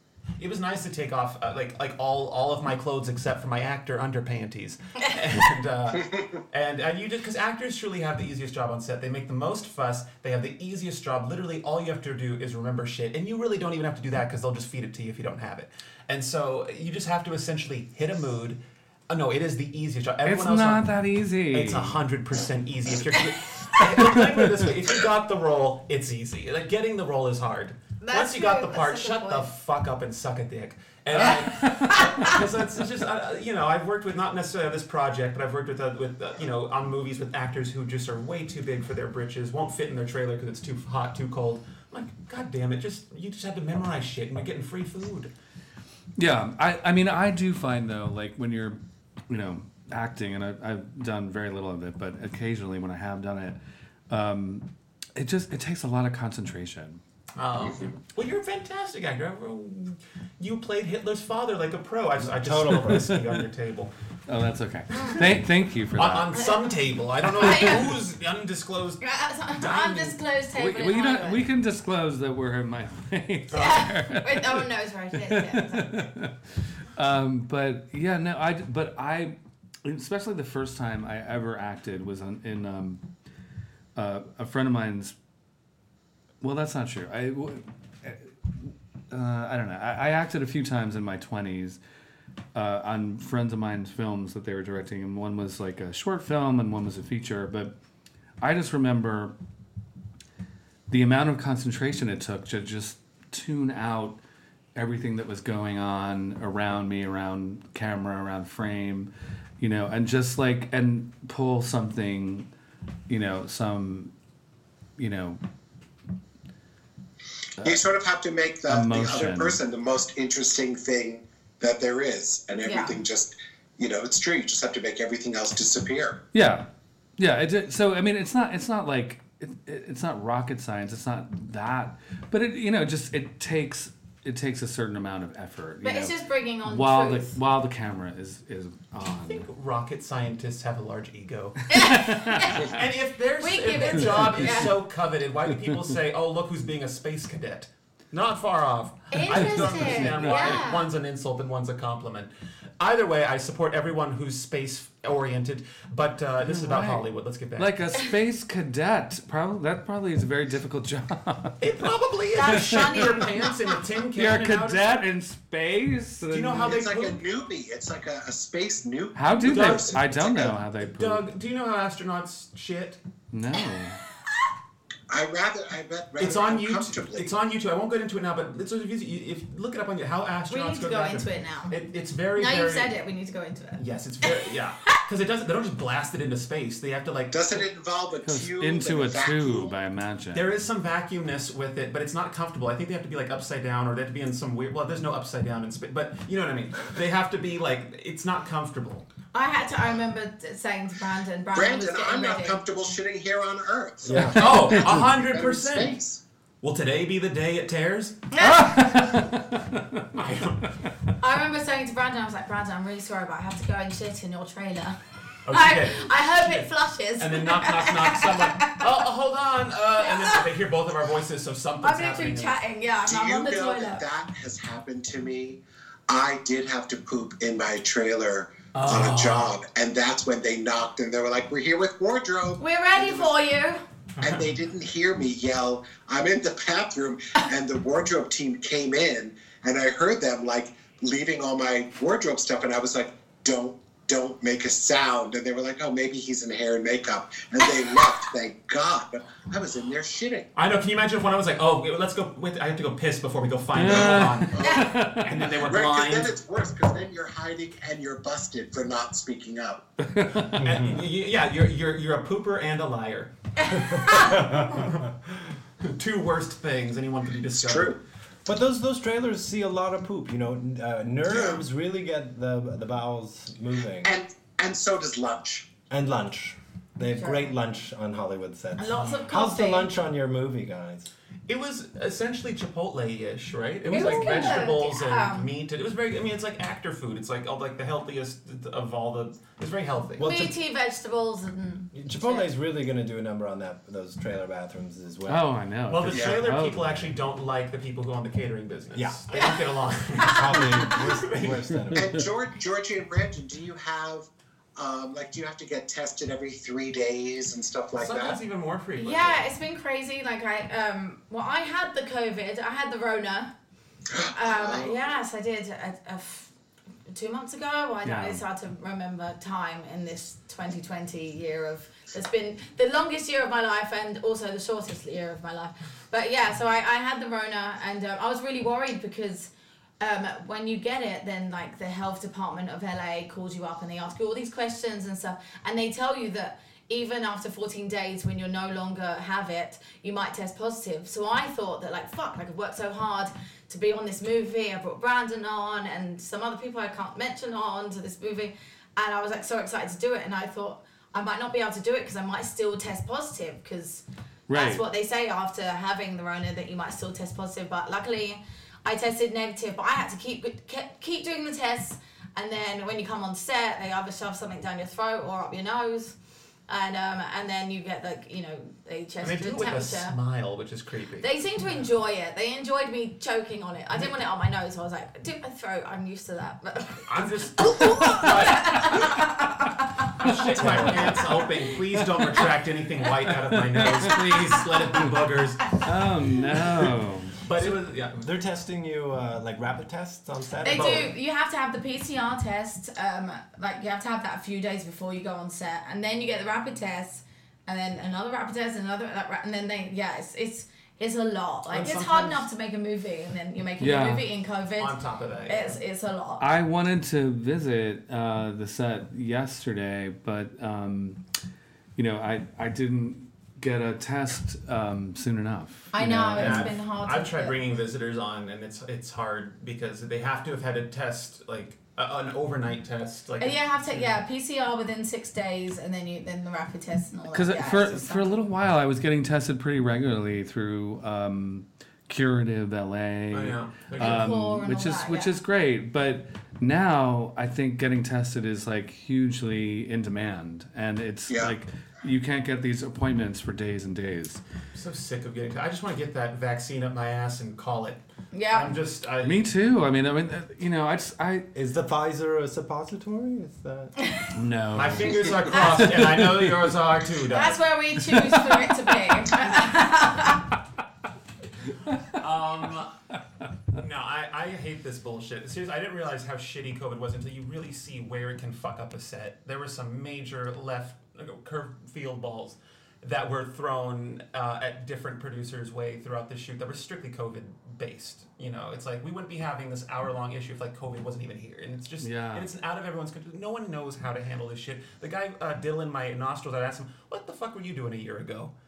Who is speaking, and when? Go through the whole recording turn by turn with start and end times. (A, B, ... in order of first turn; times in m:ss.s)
0:00.4-0:20.9 A
0:20.2-0:22.0 B
0:21.5-0:45.3 A
0:23.8-0:24.3 B
0:28.0-0:29.5 C
0:31.2-0:32.4 B
0:31.8-0:32.4 C
0:46.2-0:53.6 B
0:54.1-0:57.0 B
0:57.4-1:03.9 A
1:02.5-1:03.4 B
1:02.5-1:03.0 D
1:04.3-1:06.4 B
1:04.9-1:05.3 A
1:06.0-1:09.0 A
1:06.4-1:06.8 C
1:07.4-1:07.9 C
1:09.0-1:11.4 C
1:09.6-1:10.2 A
1:10.5-1:14.7 B
1:13.5-1:16.1 C
1:13.5-1:13.8 A
1:15.2-1:16.4 B
1:17.0-1:23.0 B
1:24.0-1:25.1 B
1:26.4-1:31.8 B
1:32.6-1:37.7 B
1:38.4-1:39.3 B
1:40.9-1:44.2 B
1:44.8-1:52.5 B
1:53.1-1:54.1 B
1:55.0-1:55.4 B
1:57.6-2:06.2 E
1:58.7-1:59.6 B
2:02.6-2:03.0 C
2:06.3-2:19.5 B
2:15.8-2:17.4 C
2:19.2-2:21.7 A
2:21.7-2:22.8 C
2:21.8-2:22.8 B
2:22.6-2:37.7 A
2:23.4-2:24.7 C
2:29.1-2:30.9 C
2:29.3-2:30.6 B
2:36.5-2:37.1 B
2:37.6-2:41.6 B
2:41.6-2:45.0 A
2:42.4-2:43.5 C
2:42.5-2:43.3 B
2:44.2-2:46.8 B
2:46.3-2:47.2 A
2:46.6-2:50.6 E
2:49.2-2:51.2 B
2:49.5-2:49.9 A
2:50.8-2:53.0 A
2:53.3-2:54.0 B
2:55.1-2:57.3 E
2:56.2-3:02.9 A
3:00.5-3:01.8 C
3:02.4-3:05.0 C
3:03.8-3:07.7 A
3:07.3-3:09.7 E
3:08.2-3:10.5 B
3:10.3-3:19.1 A
3:19.3-3:22.6 C
3:21.5-3:26.2 E
3:24.0-3:24.6 D
3:24.4-3:26.0 A
3:26.6-3:28.2 A
3:28.3-3:29.2 C
3:28.4-3:30.2 B
3:30.1-3:30.7 A
3:31.2-3:35.0 C
3:35.5-3:42.6 A
3:35.5-3:39.0 C
3:40.0-3:40.4 C
3:41.8-3:44.0 C
3:43.0-3:53.4 E
3:48.7-3:49.5 A
3:52.6-3:53.8 C
3:54.2-3:54.4 A
3:54.2-4:10.5 E
4:10.6-4:16.4 A
4:13.8-4:15.4 B
4:13.9-4:15.0 E
4:15.6-4:19.9 E
4:20.0-4:20.7 B
4:20.6-4:21.0 D
4:20.6-4:23.3 A
4:23.6-4:24.6 C
4:23.8-4:24.9 D
4:24.1-4:25.0 A
4:25.8-4:28.0 A
4:27.6-4:28.0 E
4:28.5-4:34.2 D
4:31.3-4:31.6 E
4:34.0-4:35.7 E
4:35.9-4:41.1 D
4:37.1-4:37.5 C
4:38.8-4:39.9 C
4:41.5-4:50.3 A
4:43.9-4:45.5 C
4:44.0-4:44.4 D
4:50.2-4:50.5 D
4:50.2-4:52.5 C
4:51.9-4:55.5 D
4:55.3-4:57.1 B
4:55.9-5:01.6 A
4:56.1-4:56.4 E
4:58.9-4:59.2 D
4:59.3-5:01.0 C
5:00.2-5:02.2 D
5:02.0-5:08.4 E
5:08.0-5:09.5 A
5:09.0-5:13.5 C
5:14.1-5:15.0 E
5:14.3-5:16.5 C
5:17.1-6:06.2 C
5:18.0-5:18.4 B
5:54.5-5:54.8 B
6:06.7-6:10.2 C
6:09.2-6:11.3 A
6:11.2-6:21.6 C
6:17.1-6:19.2 A
6:20.2-6:25.8 A
6:20.6-6:21.1 D
6:23.5-6:24.6 B
6:25.8-6:27.4 B
6:27.4-6:28.3 A
6:27.6-6:31.1 D
6:30.6-6:45.0 C
6:30.7-6:31.1 A
6:41.7-6:42.5 A
6:43.8-6:44.2 B
6:44.8-6:45.8 A
6:45.5-6:46.5 C
6:46.4-6:51.2 B
6:52.0-6:56.7 B
6:55.9-6:57.6 C
6:56.4-7:04.2 A
7:03.4-7:08.4 C
7:07.3-7:24.4 B
7:13.3-7:14.2 A
7:14.0-7:15.4 C
7:21.3-7:21.6 E
7:24.7-7:29.4 A
7:28.3-7:28.7 C
7:29.2-7:31.5 B
7:31.6-7:33.9 D
7:34.0-7:34.3 C
7:34.3-7:36.7 B
7:34.7-7:37.6 A
7:37.3-7:40.4 C
7:38.0-7:38.7 B
7:42.2-7:43.0 A
7:43.7-8:08.5 A
8:02.0-8:02.5 B